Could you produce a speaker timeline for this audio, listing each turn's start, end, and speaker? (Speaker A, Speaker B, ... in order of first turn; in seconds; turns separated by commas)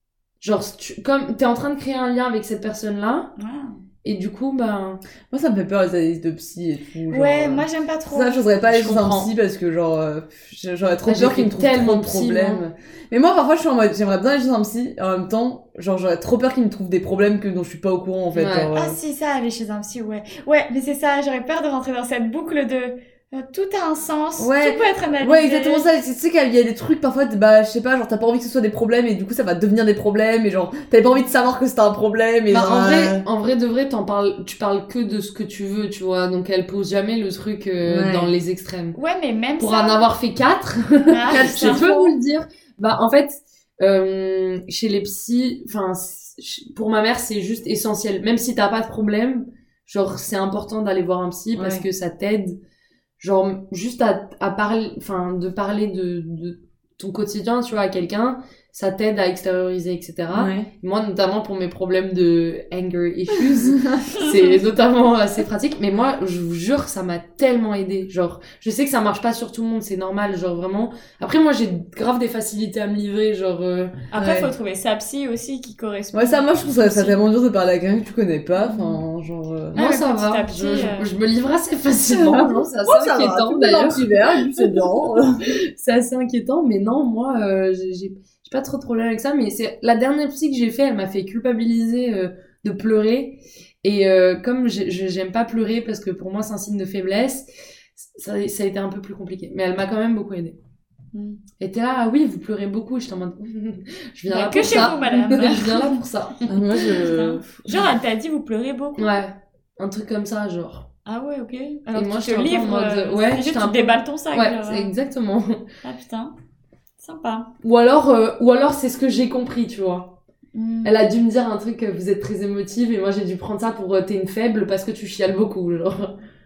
Speaker A: 0.4-3.3, Speaker B: 3.4-3.8, Speaker A: 4.0-5.0, Speaker C: 5.3-19.0, Speaker B: 7.1-8.5, Speaker A: 8.7-9.3, Speaker A: 11.0-12.6, Speaker A: 18.3-18.7, Speaker B: 18.7-25.9, Speaker C: 24.4-33.2, Speaker A: 32.5-39.0, Speaker C: 37.8-38.3, Speaker B: 38.9-40.1, Speaker A: 39.6-52.6, Speaker B: 41.1-41.8, Speaker C: 41.3-42.1, Speaker C: 51.5-51.9, Speaker A: 53.2-74.0, Speaker C: 60.3-60.7, Speaker B: 74.1-77.2, Speaker C: 74.2-74.5, Speaker C: 76.1-79.8, Speaker B: 78.7-79.0, Speaker A: 79.7-100.6, Speaker B: 79.7-81.1, Speaker C: 82.0-85.5, Speaker B: 101.1-101.4, Speaker A: 101.6-106.5, Speaker B: 104.3-106.0, Speaker C: 104.6-104.9, Speaker C: 106.5-107.7, Speaker B: 106.9-109.1, Speaker A: 109.0-110.9, Speaker B: 111.0-114.9, Speaker A: 111.9-115.7, Speaker B: 115.8-116.3, Speaker B: 117.0-117.5, Speaker A: 117.6-120.2, Speaker B: 120.5-121.0, Speaker A: 120.8-126.2